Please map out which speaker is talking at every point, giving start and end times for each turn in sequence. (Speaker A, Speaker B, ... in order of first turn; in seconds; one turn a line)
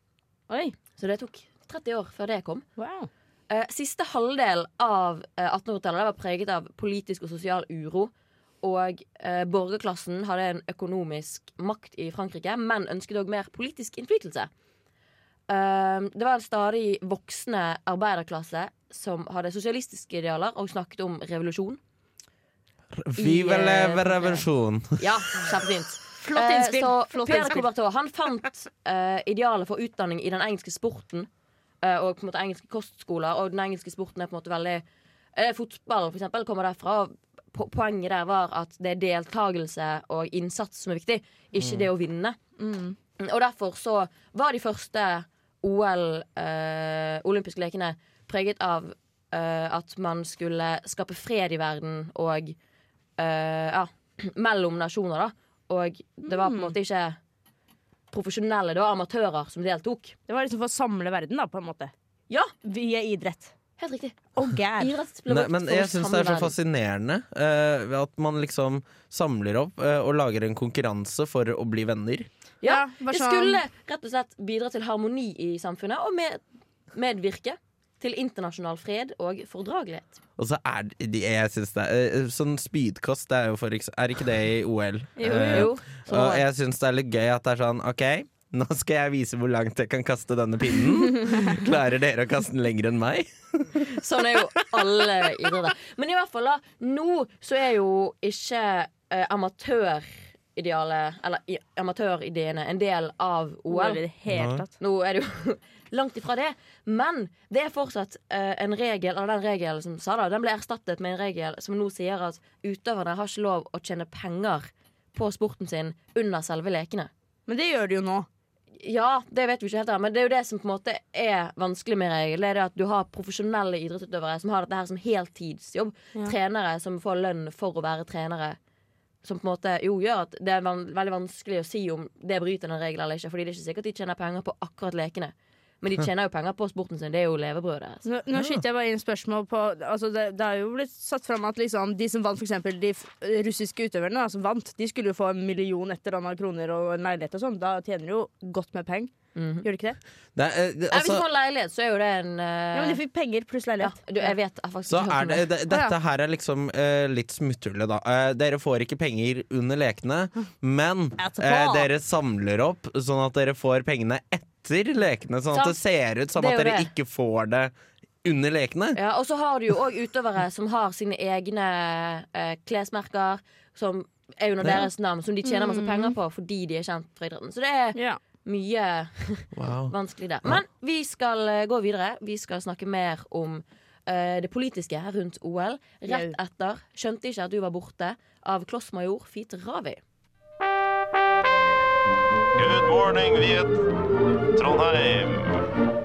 Speaker A: 0.5-0.8
Speaker B: 1.0-2.6
Speaker A: 2.8-3.1
Speaker B: 3.5-8.1
Speaker B: 8.6-14.5
Speaker B: 15.5-21.8
Speaker C: 22.9-25.5
Speaker B: 23.2-24.4
Speaker B: 25.0-31.3
Speaker A: 26.1-27.6
Speaker B: 31.8-34.8
Speaker B: 35.3-42.4
Speaker C: 41.5-41.9
Speaker A: 42.6-43.0
Speaker B: 43.2-52.5
Speaker B: 53.2-57.2
Speaker A: 56.2-56.7
Speaker B: 58.1-60.1
Speaker A: 60.3-61.9
Speaker A: 62.6-63.5
Speaker B: 63.8-66.5
Speaker A: 64.3-64.9
Speaker C: 65.3-72.3
Speaker B: 72.6-76.4
Speaker A: 72.6-73.6
Speaker B: 76.9-80.2
Speaker C: 80.4-95.0
Speaker A: 85.2-85.7
Speaker B: 85.5-86.4
Speaker B: 93.9-104.0
Speaker A: 103.7-104.7
Speaker C: 104.3-104.6
Speaker B: 104.8-117.1
Speaker A: 117.5-118.3
Speaker B: 118.8-128.6
Speaker B: 129.2-138.0
Speaker A: 138.0-149.1
Speaker C: 138.3-138.6
Speaker B: 149.3-149.7
Speaker A: 149.6-150.0
Speaker C: 150.3-151.2
Speaker B: 150.9-153.0
Speaker A: 152.7-154.3
Speaker B: 153.8-155.5
Speaker C: 154.9-167.7
Speaker A: 161.2-161.9
Speaker B: 165.5-165.8
Speaker B: 166.3-166.9
Speaker C: 168.2-169.0
Speaker B: 168.9-190.0
Speaker A: 175.4-176.1
Speaker A: 177.9-178.2
Speaker C: 179.5-179.9
Speaker A: 186.1-186.3
Speaker D: 192.5-193.8
Speaker D: 194.5-195.7